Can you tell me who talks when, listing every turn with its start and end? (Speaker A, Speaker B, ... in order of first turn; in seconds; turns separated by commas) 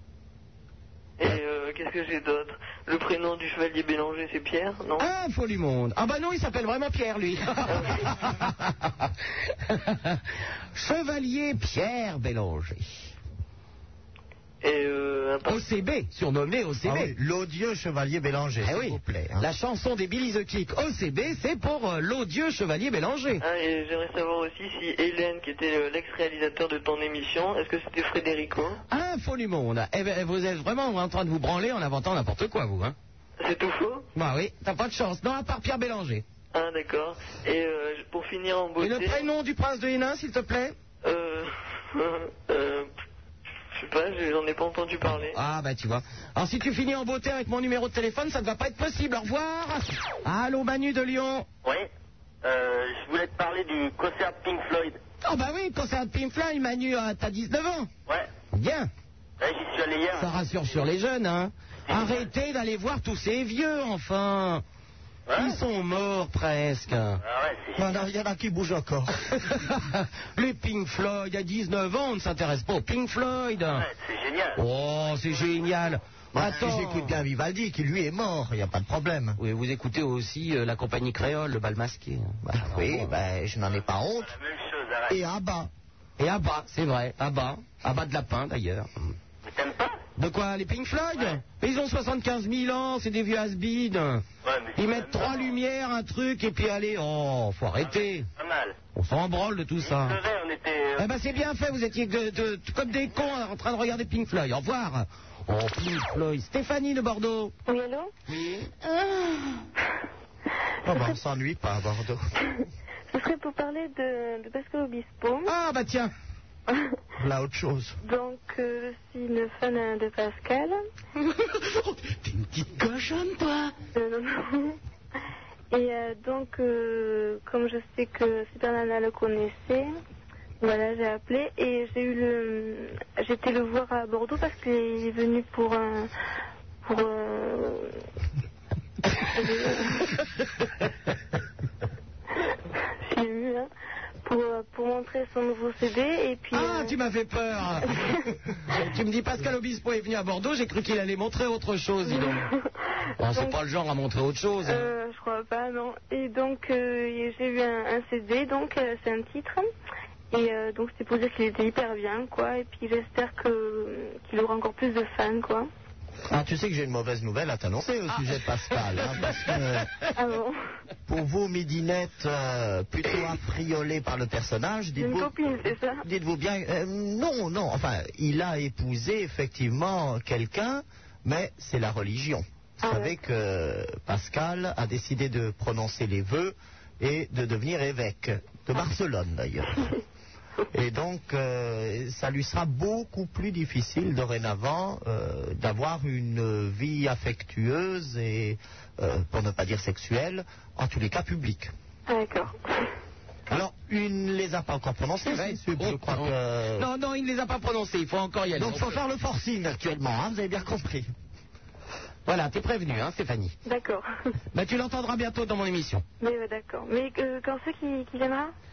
Speaker A: 1.2-5.1, Speaker B: 5.0-8.7, Speaker A: 7.7-8.1, Speaker B: 9.7-10.2, Speaker B: 10.7-12.9, Speaker A: 14.6-15.6, Speaker B: 15.5-17.1, Speaker C: 16.9-19.5, Speaker B: 18.6-23.4, Speaker A: 23.4-28.8, Speaker B: 28.9-33.0, Speaker A: 33.4-34.1, Speaker B: 34.1-36.2, Speaker A: 36.5-39.3, Speaker B: 38.8-40.8, Speaker A: 41.0-42.9, Speaker A: 43.7-45.4, Speaker B: 45.3-51.5, Speaker D: 51.6-51.9, Speaker D: 52.4-55.0, Speaker B: 55.2-57.9, Speaker B: 58.5-58.9, Speaker D: 59.4-60.5, Speaker B: 60.2-64.6, Speaker D: 61.9-62.3, Speaker D: 65.3-65.6, Speaker B: 65.3-67.2, Speaker D: 67.2-68.1, Speaker C: 67.8-69.1, Speaker B: 69.3-73.9, Speaker D: 73.7-74.6, Speaker B: 74.6-77.2, Speaker C: 76.3-79.4, Speaker B: 79.4-83.1, Speaker C: 82.4-84.3, Speaker D: 84.2-85.2, Speaker C: 85.1-85.7, Speaker B: 86.2-89.2, Speaker D: 89.4-90.0, Speaker B: 90.2-94.2, Speaker D: 94.4-95.6, Speaker B: 94.8-98.3, Speaker D: 97.8-98.8, Speaker B: 99.0-100.2, Speaker D: 99.8-101.1, Speaker B: 101.0-107.5, Speaker E: 107.7-108.1, Speaker B: 108.3-108.7, Speaker C: 110.8-112.2, Speaker E: 113.1-115.5, Speaker B: 115.5-116.1, Speaker C: 117.2-118.0, Speaker E: 118.0-120.8, Speaker B: 122.3-123.4, Speaker E: 124.0-124.8, Speaker E: 125.7-129.9, Speaker E: 130.6-136.1, Speaker E: 136.8-137.9, Speaker E: 139.3-140.0, Speaker E: 143.1-143.7, Speaker E: 144.2-146.9, Speaker B: 146.5-148.1, Speaker B: 148.7-152.4, Speaker E: 152.1-152.6, Speaker B: 153.2-154.9, Speaker E: 153.3-153.6, Speaker E: 154.6-159.7, Speaker E: 160.3-165.7, Speaker C: 166.3-169.9, Speaker E: 170.2-170.6, Speaker C: 171.1-175.3, Speaker E: 175.0-176.0, Speaker C: 176.0-189.8, Speaker E: 182.8-183.2, Speaker C: 190.7-201.7, Speaker E: 202.1-202.6, Speaker C: 203.5-206.9, Speaker B: 205.3-209.0, Speaker C: 208.6-211.1, Speaker B: 212.3-213.6, Speaker E: 213.7-214.1, Speaker B: 214.5-216.0, Speaker E: 216.2-218.5